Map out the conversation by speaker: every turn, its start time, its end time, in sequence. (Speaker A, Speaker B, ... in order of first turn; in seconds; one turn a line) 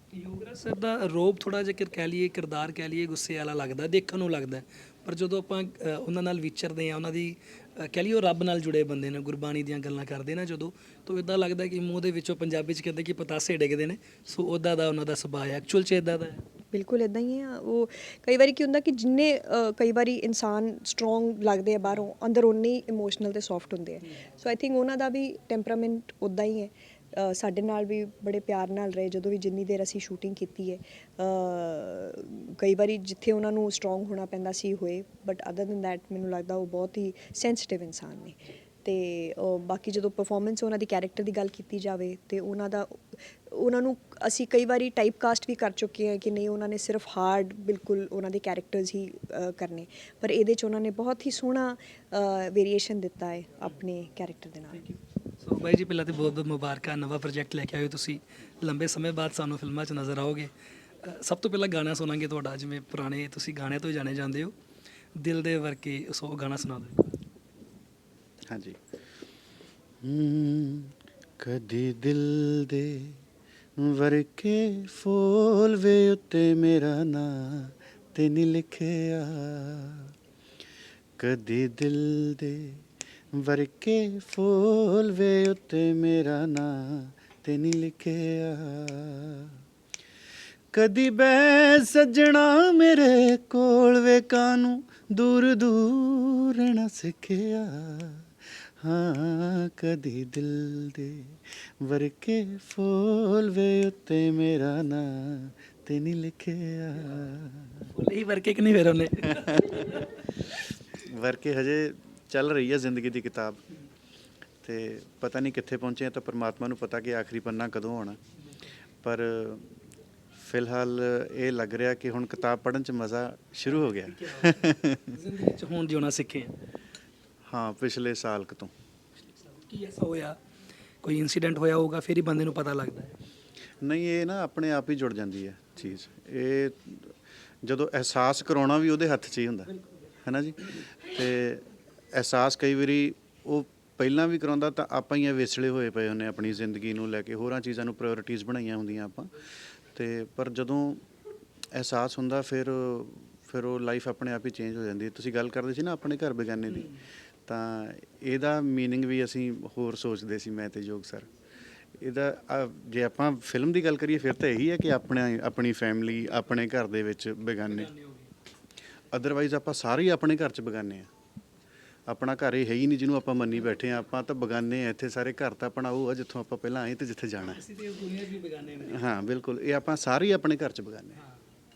Speaker A: 0.1-16.4
Speaker B: 16.7-54.8
Speaker A: 54.8-64.5
Speaker A: 65.2-67.2
Speaker C: 68.5-68.8
Speaker C: 70.0-73.2
Speaker C: 73.8-80.1
Speaker C: 81.2-89.6
Speaker C: 90.7-107.9
Speaker A: 107.9-110.2
Speaker C: 109.3-110.1
Speaker C: 110.9-113.6
Speaker C: 114.6-118.2
Speaker A: 118.4-118.7
Speaker C: 119.0-119.8
Speaker C: 120.4-125.2
Speaker A: 124.0-126.5
Speaker C: 127.5-128.7
Speaker A: 129.2-130.4
Speaker A: 131.0-133.2
Speaker C: 133.8-149.3
Speaker C: 149.9-151.1
Speaker C: 151.7-161.3
Speaker C: 162.0-167.9
Speaker A: 167.7-168.3
Speaker C: 169.1-171.1
Speaker C: 172.1-177.6
Speaker A: 177.5-179.1
Speaker C: 178.8-181.2